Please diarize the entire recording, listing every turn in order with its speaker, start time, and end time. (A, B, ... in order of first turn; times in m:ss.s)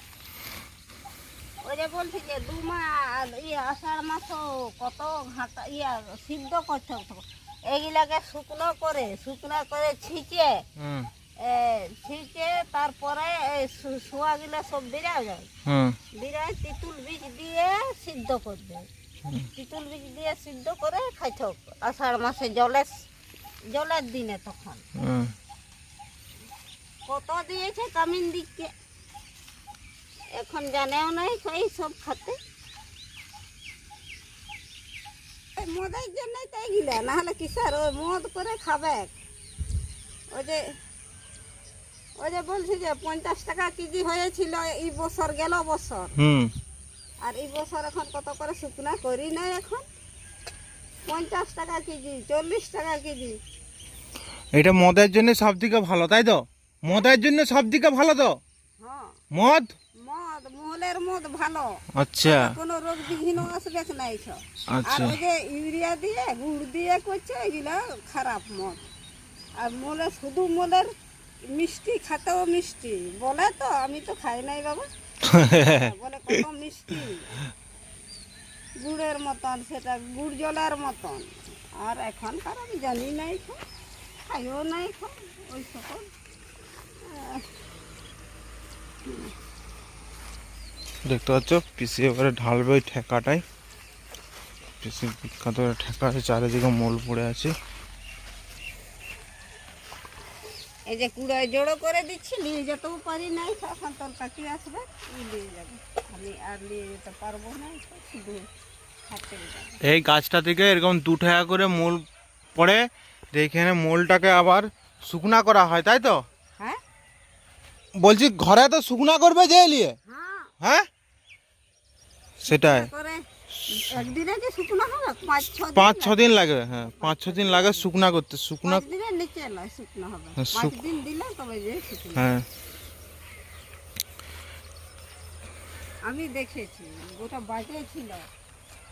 0:01.6-0:10.6 A
0:10.8-0:11.1 B
0:11.4-0:15.5 A
0:15.7-0:16.0 B
0:16.2-0:18.9 A
0:19.6-0:23.0 A
0:23.7-0:24.8 A
0:25.0-0:25.3 B
0:27.1-0:28.7 A
0:30.4-0:32.4 A
0:35.6-0:39.1 A
0:40.3-0:40.6 A
0:42.2-0:46.1 A
0:46.2-0:46.5 B
0:47.2-0:49.8 A
0:51.1-0:53.4 A
0:54.6-0:58.4 B
0:58.8-0:59.2 A
0:59.3-0:59.7 B
1:00.0-1:08.8 A
1:02.0-1:02.6 B
1:04.7-1:05.2 B
1:09.6-1:10.9 A
1:11.5-1:14.9 A
1:15.2-1:16.4 B
1:15.7-1:17.4 A
1:18.8-1:23.6 A
1:24.2-1:26.1 A
1:27.0-1:27.4 A
1:29.1-1:29.3 A
1:31.1-1:33.4 B
1:34.8-1:37.5 B
1:40.9-1:48.5 A
1:49.1-1:49.8 A
1:49.8-1:52.0 B
1:52.6-1:56.2 B
1:58.0-2:00.0 B
2:00.1-2:00.5 A
2:00.6-2:00.9 B
2:02.4-2:02.9 B
2:02.5-2:06.2 A
2:05.7-2:08.8 B
2:06.8-2:07.9 A
2:08.6-2:12.3 A
2:10.4-2:10.8 B
2:12.2-2:12.5 B
2:16.0-2:18.3 A